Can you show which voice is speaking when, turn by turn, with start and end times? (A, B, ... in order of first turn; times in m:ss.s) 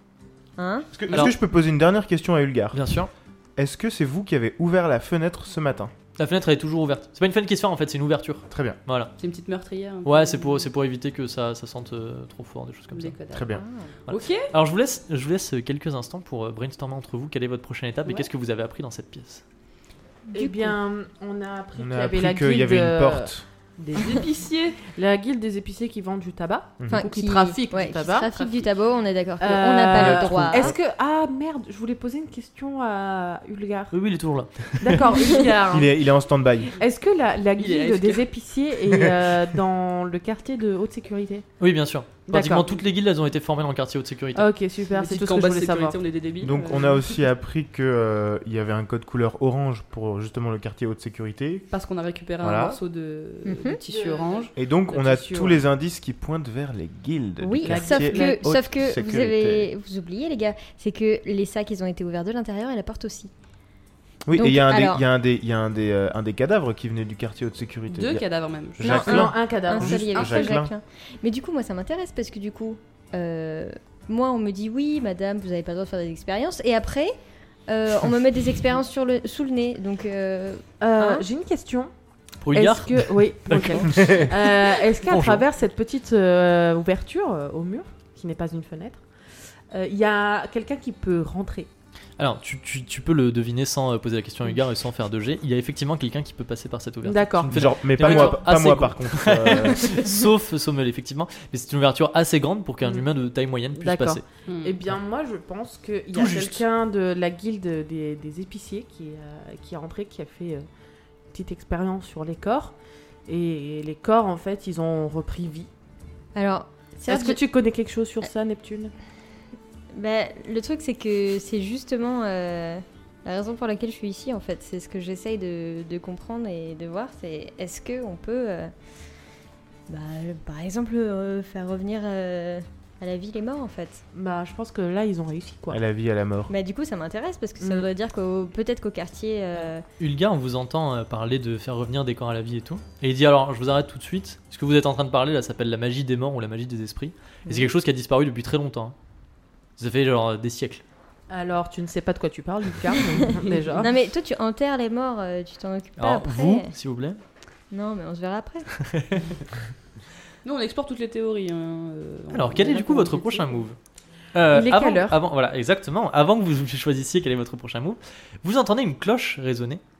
0:00.6-0:00.9 A
0:00.9-0:02.8 B
0:02.7-0:03.1 C
0:03.6-0:05.9 B
0:06.2-0:09.1 C
0:08.5-0:08.8 B
0:09.2-0:10.7 D
0:10.0-0:13.1 C
0:12.9-0:14.5 D
0:13.3-0:13.6 B
0:13.5-0:13.9 A
0:14.1-0:19.4 C
0:20.3-0:20.7 A
0:20.3-0:28.7 E
0:21.8-0:23.4 B
0:23.9-0:24.8 D
0:26.8-0:27.1 B
0:26.9-0:30.7 A
0:29.4-0:33.9 E
0:29.9-0:30.7 B
0:33.9-0:35.1 C
0:34.8-0:36.0 E
0:35.7-0:36.7 B
0:36.7-0:41.5 E
0:37.6-0:38.3 D
0:41.6-0:44.5 C
0:42.2-0:42.8 E
0:44.3-0:46.8 E
0:44.9-0:47.2 D
0:46.4-0:51.7 B
0:51.7-0:54.5 D
0:52.4-0:52.8 B
0:53.4-0:53.8 A
0:53.9-0:55.6 E
0:54.6-0:59.7 B
0:57.4-1:03.3 A
0:57.6-0:58.5 E
1:04.3-1:08.2 B
1:04.3-1:05.0 A
1:07.9-1:09.2 D
1:08.8-1:10.7 B
1:08.8-1:17.1 A
1:09.0-1:10.2 E
1:10.1-1:10.5 D
1:17.7-1:21.3 A
1:20.8-1:21.9 E
1:22.4-1:25.4 C
1:22.5-1:29.0 E
1:29.7-1:31.7 E
1:32.2-1:44.2 C
1:37.0-1:38.3 E
1:37.4-1:40.1 B
1:43.8-1:50.6 E
1:44.5-1:44.8 D
1:46.1-1:46.6 C
1:51.3-1:55.7 E
1:56.3-1:57.4 A
1:57.1-1:58.9 E
1:59.9-2:08.7 A
2:09.9-2:14.0 A
2:14.1-2:15.8 E
2:15.7-2:16.5 B
2:16.5-2:19.8 A
2:17.6-2:17.9 E
2:20.0-2:28.9 C
2:29.8-2:30.8 C
2:31.3-2:33.9 E
2:33.5-2:33.9 D
2:33.8-2:36.7 A
2:36.0-2:37.2 C
2:37.7-2:38.7 A
2:38.8-2:39.3 C
2:40.4-2:43.6 D
2:42.3-2:43.8 C
2:44.3-2:49.8 C
2:44.5-2:45.2 E